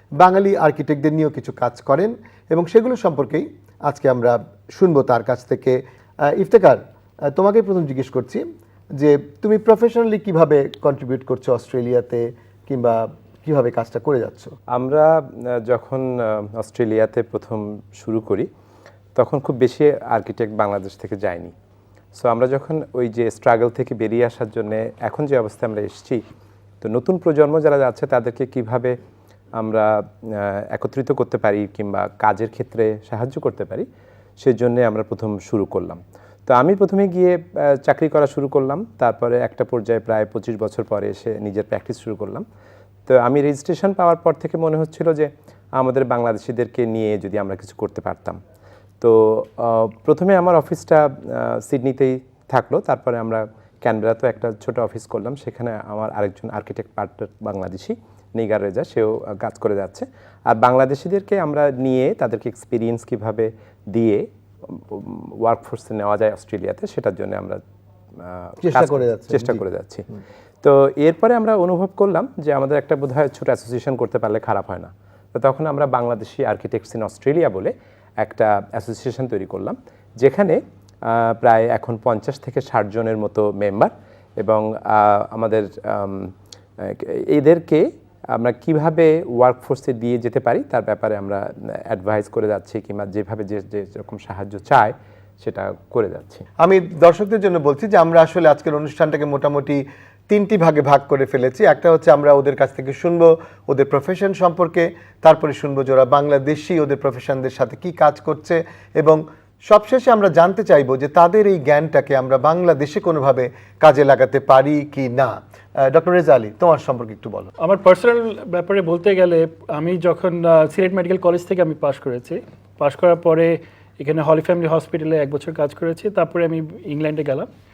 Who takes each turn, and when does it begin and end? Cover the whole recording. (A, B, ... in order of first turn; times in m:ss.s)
0:00.2-0:08.4 A
0:09.0-0:14.5 A
0:14.8-0:18.5 B
0:19.2-0:21.5 B
0:22.2-0:26.2 B
0:26.8-0:29.0 B
0:29.6-0:33.8 B
0:34.4-0:42.4 B
0:43.1-0:48.4 B
0:49.0-1:07.6 B
1:08.2-1:10.0 B
1:08.6-1:09.6 A
1:10.6-1:27.8 B
1:28.4-1:36.4 B
1:36.6-1:57.5 A
1:57.6-2:07.5 C